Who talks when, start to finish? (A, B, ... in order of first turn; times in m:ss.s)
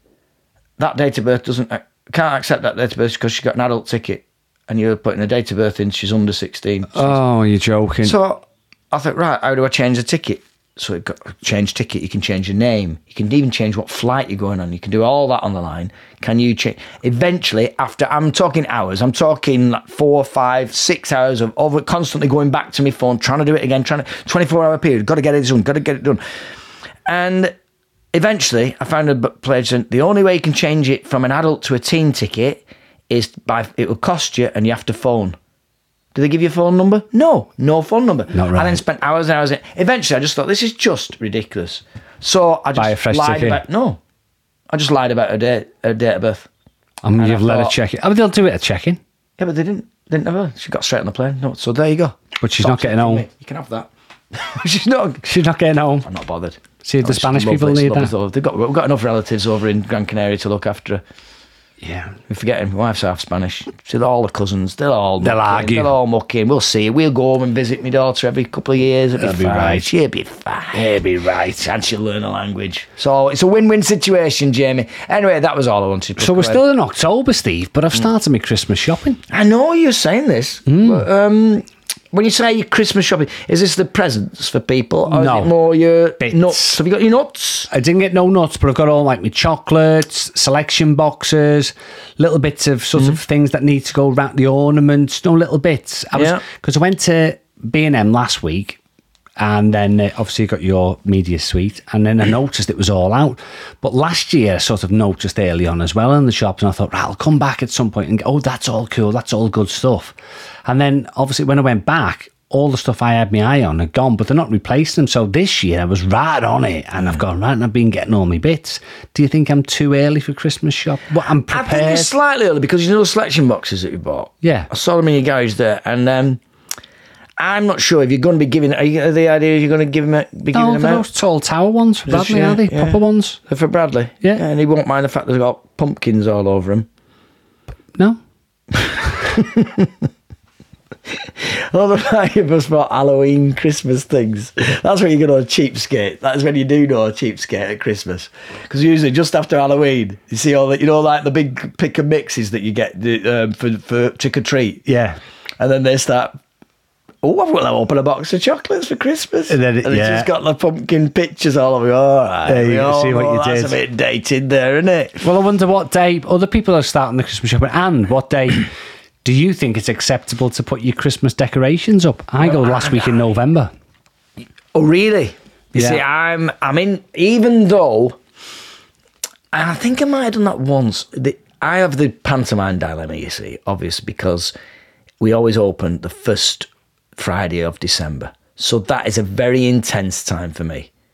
0:00.8-0:07.2 A
0:06.9-0:08.2 B
0:08.0-0:26.2 A
0:27.0-0:27.5 A
0:28.1-0:35.4 A
0:36.1-0:44.0 A
0:38.3-0:38.8 B
0:42.8-0:43.6 B
0:44.7-0:46.5 A
0:47.0-0:49.0 B
0:47.2-0:47.7 A
0:49.4-0:55.2 A
0:52.4-0:53.2 B
0:55.2-0:56.1 B
0:56.0-1:01.0 A
0:56.8-0:58.1 B
1:01.8-1:02.1 B
1:02.3-1:11.0 A
1:05.2-1:05.9 B
1:09.2-1:09.9 B
1:10.7-1:11.7 B
1:11.5-1:16.6 A
1:16.2-1:19.2 B
1:19.3-1:27.7 A
1:20.7-1:21.0 B
1:25.1-1:25.5 B
1:26.2-1:26.8 B
1:27.7-1:38.8 B
1:36.1-1:36.4 A
1:39.4-2:02.1 B
2:01.5-2:06.4 A
2:04.4-2:04.7 B
2:07.4-2:11.0 A
2:10.5-2:13.4 B
2:12.1-2:16.9 A
2:19.2-2:19.9 A
2:21.2-2:34.8 A
2:34.8-2:35.2 B
2:35.6-2:36.4 A
2:37.2-2:45.2 A
2:39.5-2:40.3 B
2:42.5-2:43.8 B
2:45.2-2:48.7 B
2:49.2-2:53.7 B
2:52.4-2:53.2 A
2:54.7-2:58.2 A
2:55.7-2:56.0 B
2:59.5-3:04.5 A
3:05.2-3:10.9 A